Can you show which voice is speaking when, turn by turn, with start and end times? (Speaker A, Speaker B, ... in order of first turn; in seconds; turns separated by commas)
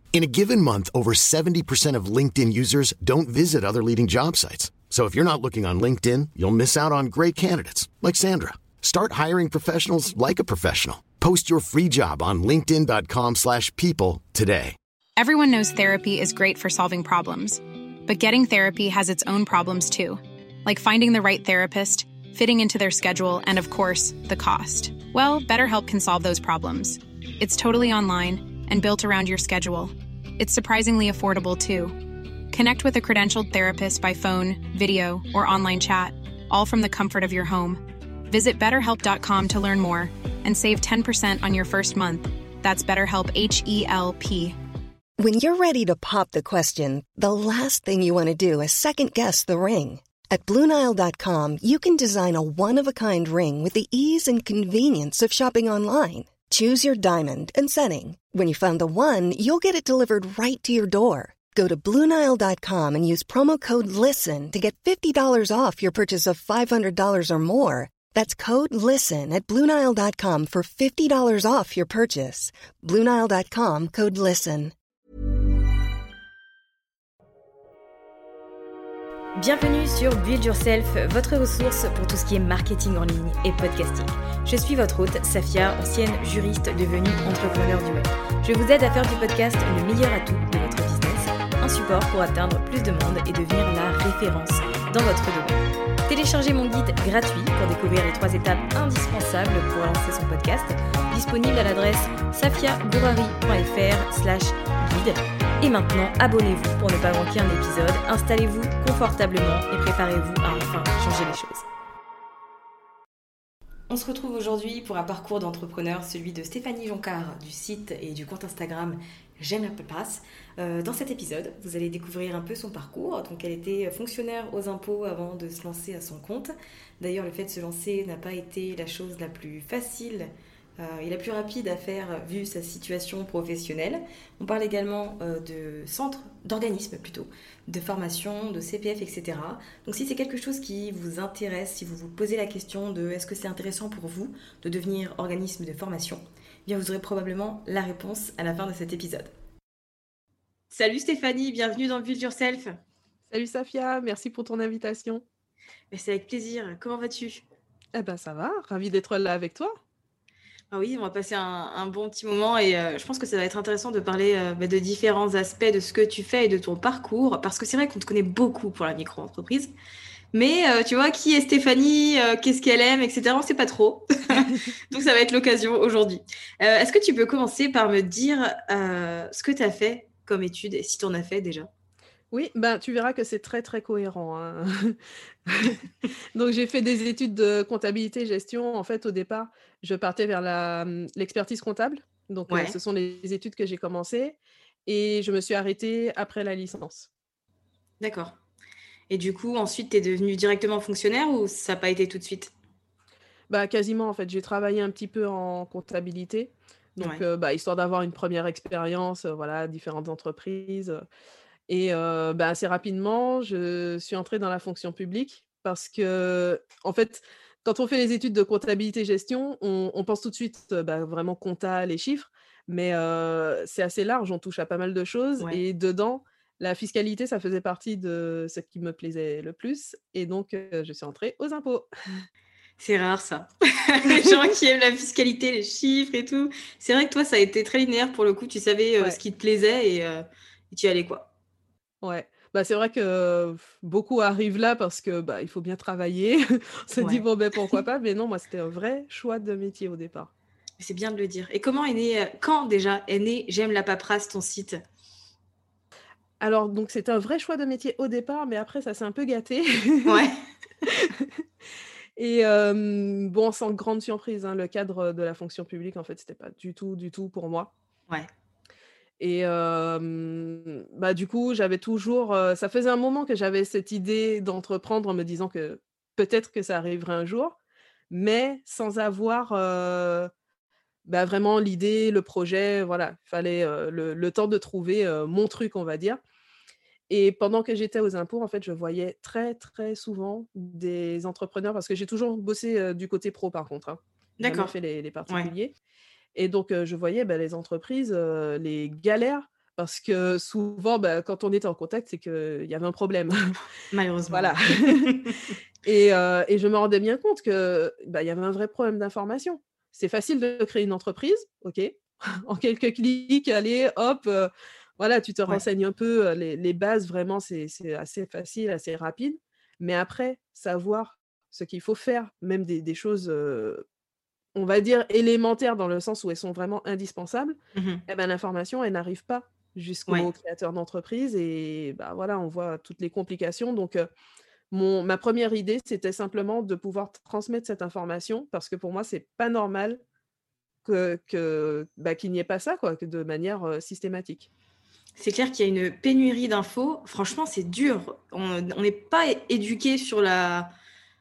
Speaker A: 0.1-14.8, Speaker B: 15.2-44.6, Speaker C: 45.2-74.7, Speaker D: 79.4-111.7, Speaker D: 113.9-149.3, Speaker D: 150.7-152.8, Speaker E: 153.3-155.2, Speaker D: 155.9-157.4, Speaker E: 157.9-159.8, Speaker D: 160.7-169.7, Speaker D: 170.3-181.7, Speaker E: 182.3-197.1, Speaker D: 192.5-192.8, Speaker D: 198.0-198.4, Speaker D: 199.1-202.5, Speaker E: 203.5-211.0, Speaker E: 211.7-232.2, Speaker D: 232.8-241.3, Speaker E: 242.0-250.3, Speaker D: 247.0-247.2, Speaker D: 250.8-254.8, Speaker E: 256.4-260.3, Speaker D: 260.1-260.4, Speaker E: 260.9-261.3, Speaker E: 262.2-267.7, Speaker E: 269.2-277.6, Speaker E: 278.1-280.3, Speaker E: 281.1-286.2, Speaker E: 287.1-295.7, Speaker D: 294.4-294.7, Speaker E: 296.4-303.6, Speaker D: 303.9-305.5, Speaker E: 304.3-305.1, Speaker E: 305.9-323.8, Speaker E: 324.6-334.1, Speaker D: 327.8-328.0, Speaker E: 334.7-340.0, Speaker E: 340.9-344.5, Speaker D: 345.2-350.7